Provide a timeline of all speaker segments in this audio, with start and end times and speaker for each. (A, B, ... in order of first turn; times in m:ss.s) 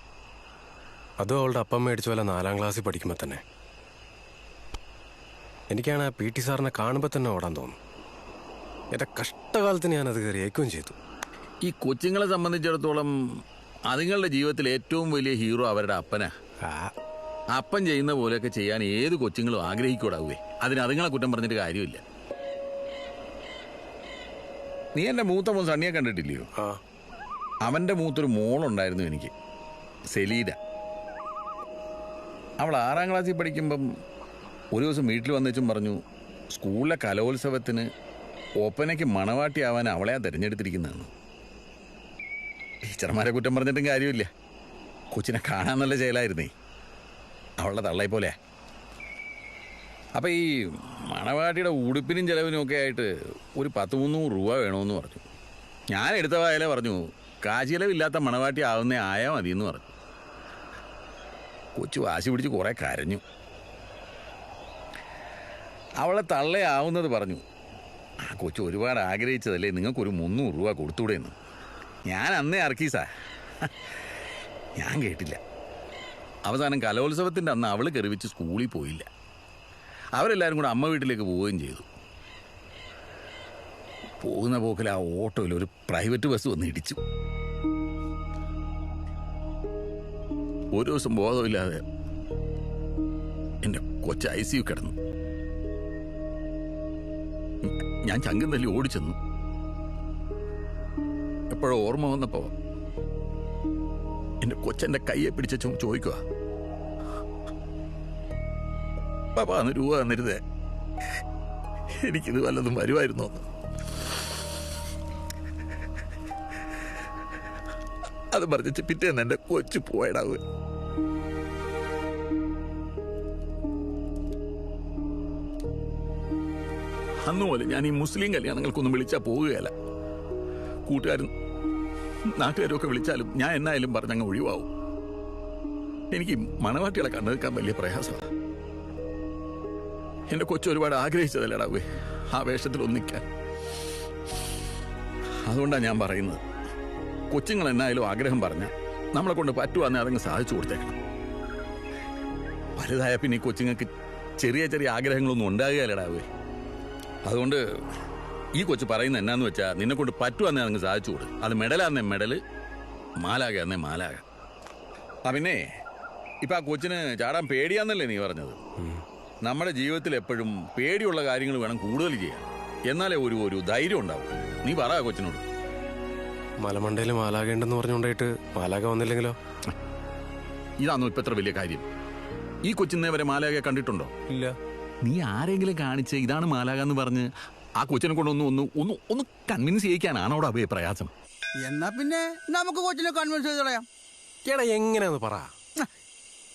0:01.2-0:03.4 A
0:05.7-0:07.8 A
0:08.9-0:11.0 A
0:11.6-0:13.1 B
0:13.9-0:16.3 B
0:16.6-0:16.9 A
0:17.5-0:22.0 B
0:25.0-0:26.5 B
0:27.6-0:29.3 B
0:30.1-0:30.6 B
0:32.6-0:33.8 B
0:34.7-0:36.0 B
0:36.5-0:37.9 B
0:38.6-0:41.1 B
0:42.8-0:44.3 B
0:45.1-0:46.5 B
0:47.6-0:48.4 B
0:50.2-0:55.2 B
0:55.9-0:59.9 B
1:01.8-1:03.2 B
1:06.0-1:07.4 B
1:08.2-1:11.3 B
1:12.1-1:13.1 B
1:14.8-1:15.4 B
1:16.4-1:19.1 B
1:20.2-1:21.9 B
1:24.2-1:27.0 B
1:30.7-1:31.8 B
1:33.6-1:34.9 B
1:37.6-1:39.2 B
1:41.5-1:42.5 B
1:44.4-1:46.2 B
1:49.3-1:50.4 B
1:52.0-1:53.4 B
1:58.3-2:00.4 B
2:07.2-2:09.7 B
2:10.9-2:11.3 B
2:12.3-2:14.7 B
2:16.1-2:18.3 B
2:20.3-2:23.2 B
2:25.4-2:26.4 B
2:27.3-2:31.0 B
2:32.8-2:33.9 B
2:34.4-2:36.3 B
2:37.2-2:37.6 B
2:38.6-2:42.4 B
2:43.2-2:44.2 B
2:45.2-2:45.6 B
2:46.4-2:48.6 B
2:48.8-2:49.0 A
2:49.4-2:55.4 B
2:56.6-2:59.3 A
3:00.8-3:01.8 B
3:02.6-3:04.1 B
3:04.3-3:04.6 A
3:05.0-3:11.1 B
3:11.6-3:13.8 C
3:14.4-3:15.5 A